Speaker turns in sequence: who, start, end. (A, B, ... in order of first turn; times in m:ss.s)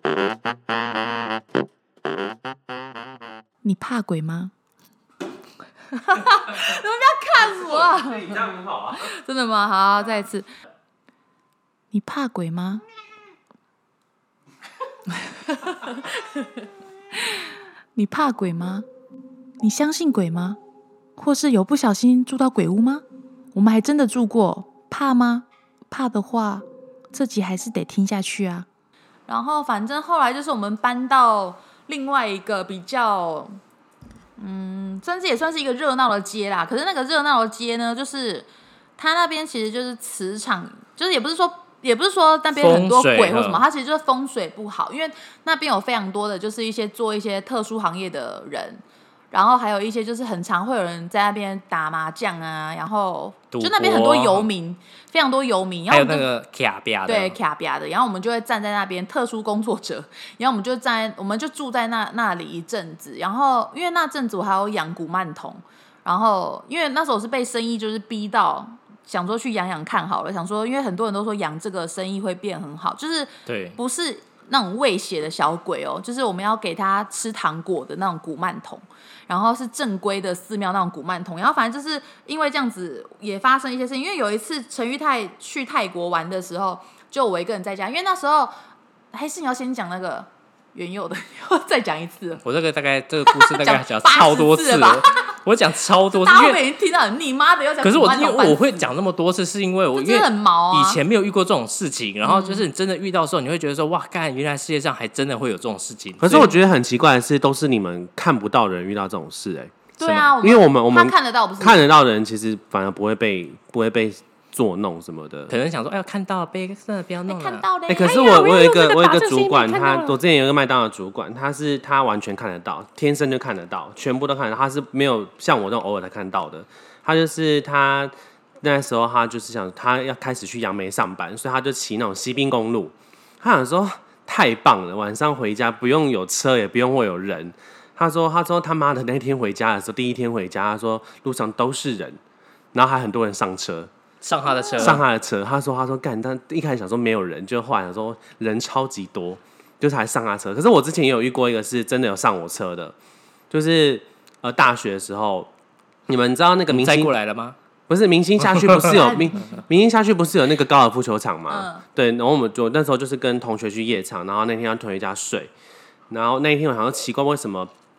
0:03.6-0:04.5 A
0:05.9-0:10.4 A
0:07.4-0:09.1 B
0:11.9-0:12.8 A
0:15.3-0:16.4 A
0:17.2-0:18.8 A
0:19.6-0:20.6 A
0:21.2-0:23.0 A
0:23.5-0:28.7 A
0:29.3-0:33.6 A
0:34.4-0:38.5 A
0:39.0-0:56.2 A
0:42.5-0:43.6 C
0:53.5-0:54.5 C
0:55.9-0:57.4 C
0:57.1-1:28.5 A
1:13.5-1:13.8 C
1:29.1-1:32.4 A
1:32.4-1:36.6 C
1:33.2-1:35.3 A
1:36.1-1:38.8 A
1:37.8-1:46.5 C
1:39.9-1:41.0 A
1:42.2-1:42.6 A
1:46.2-1:49.7 B
1:50.0-1:51.8 A
1:50.0-1:50.3 C
1:50.4-1:55.5 B
1:55.5-2:00.2 C
1:57.3-1:58.7 A
1:57.9-2:22.2 B
2:22.7-2:23.9 B
2:24.2-2:25.0 C
2:24.6-2:25.0 A
2:24.8-2:32.9 B
2:33.5-2:35.5 B
2:36.1-2:37.1 B
2:36.7-2:37.6 C
2:37.9-2:45.5 B
2:38.4-2:39.0 C
2:38.9-2:39.6 A
2:41.5-2:41.8 A
2:46.1-2:47.7 B